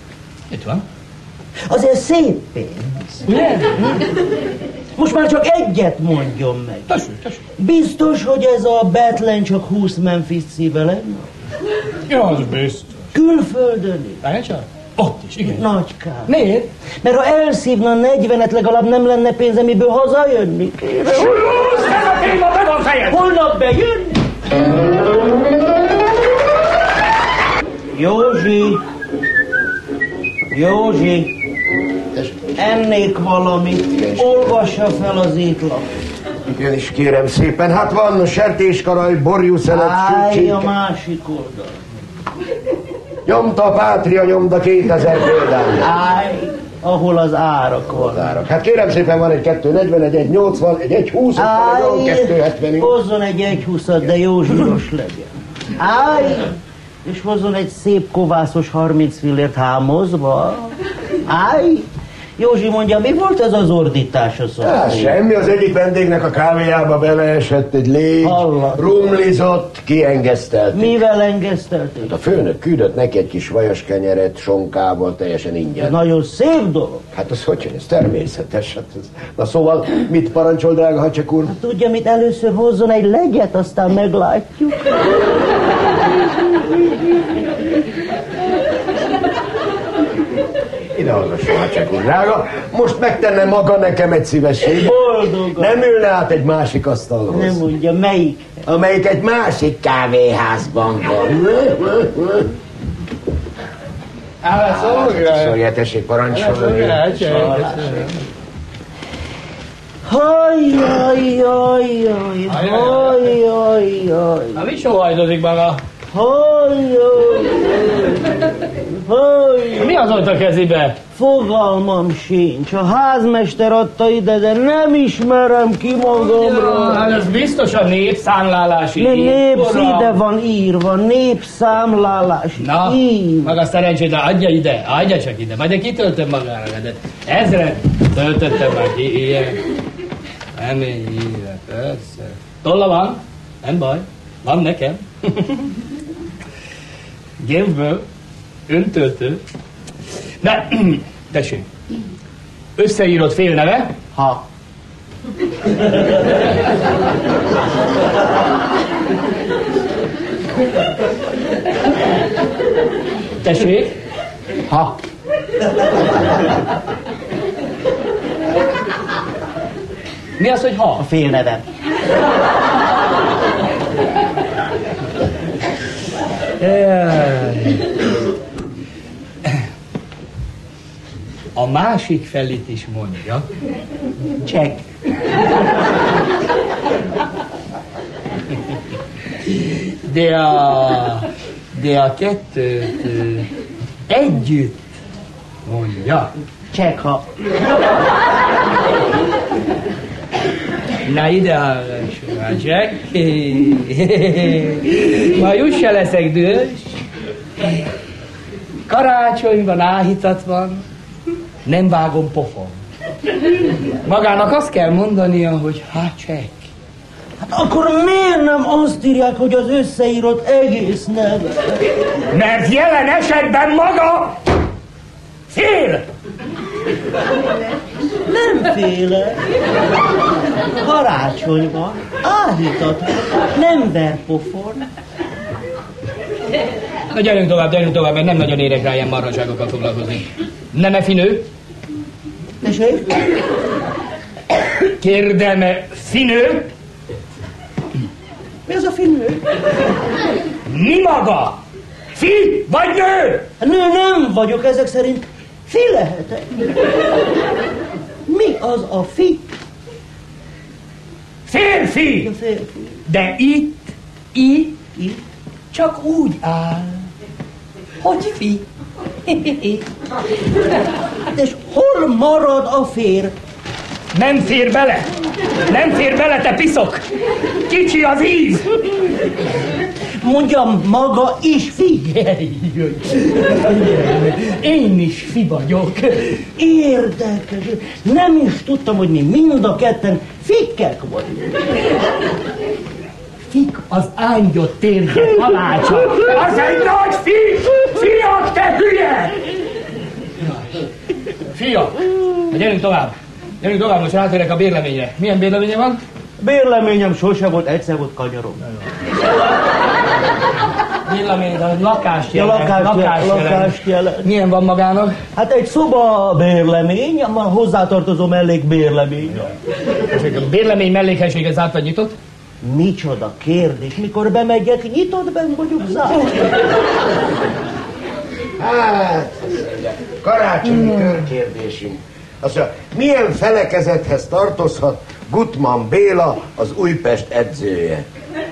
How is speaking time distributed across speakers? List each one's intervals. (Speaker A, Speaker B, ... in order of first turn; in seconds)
Speaker A: 0.5-0.8, 3.3-3.8, 6.9-7.4, 12.1-13.1, 14.2-15.6, 16.3-16.7, 21.1-23.2, 104.4-105.5, 106.3-108.2, 112.5-113.2, 114.5-115.8, 119.8-121.0, 126.2-130.1, 132.6-139.6, 140.6-145.7, 147.4-148.0, 148.7-149.4, 150.4-151.7, 152.8-153.9, 163.4-163.9, 170.4-171.0, 176.6-177.8, 181.6-183.4, 190.0-193.5, 194.1-194.8, 195.7-196.3, 201.1-207.0, 208.9-210.8, 211.7-212.8, 214.0-216.5, 222.3-224.4, 225.5-226.0, 237.1-241.4, 244.8-246.7, 250.7-251.6, 252.1-253.5, 261.5-262.3, 263.1-263.8, 264.3-264.8, 265.7-267.0, 268.0-268.6, 269.3-269.8, 274.1-275.1, 275.7-277.0, 277.6-278.7, 282.1-286.4, 293.5-299.3, 301.5-306.0, 311.1-315.1, 320.1-322.1
Speaker B: 1.7-4.0, 5.0-7.0, 7.6-11.3, 13.1-14.2, 15.4-16.4, 17.0-21.6, 23.1-24.2, 27.9-28.8, 30.5-31.3, 32.5-35.9, 39.7-41.7, 45.8-48.2, 51.3-60.7, 61.2-61.9, 62.4-65.2, 68.2-69.1, 70.7-72.3, 75.8-77.0, 81.5-85.1, 94.6-95.8, 97.3-98.6, 107.2-108.0, 110.0-114.6, 116.1-118.3, 118.8-120.0, 121.1-127.1, 129.0-133.5, 154.1-154.4, 171.0-171.6, 184.4-184.8, 196.7-197.2, 217.4-221.8, 228.2-229.4, 230.8-234.9, 242.6-243.2, 248.7-249.4, 253.6-256.7, 258.3-259.5, 262.2-263.0, 271.3-273.3, 280.2-282.1, 286.6-291.8, 306.4-308.6, 312.3-314.3, 315.3-319.5, 322.6-326.5
Speaker C: 32.1-32.5, 33.9-34.5, 36.5-40.7, 43.2-45.9, 48.0-52.9, 64.6-71.0, 72.0-75.9, 77.1-81.5, 90.9-95.0, 95.6-97.6, 98.7-102.5, 104.6-107.4, 328.6-338.0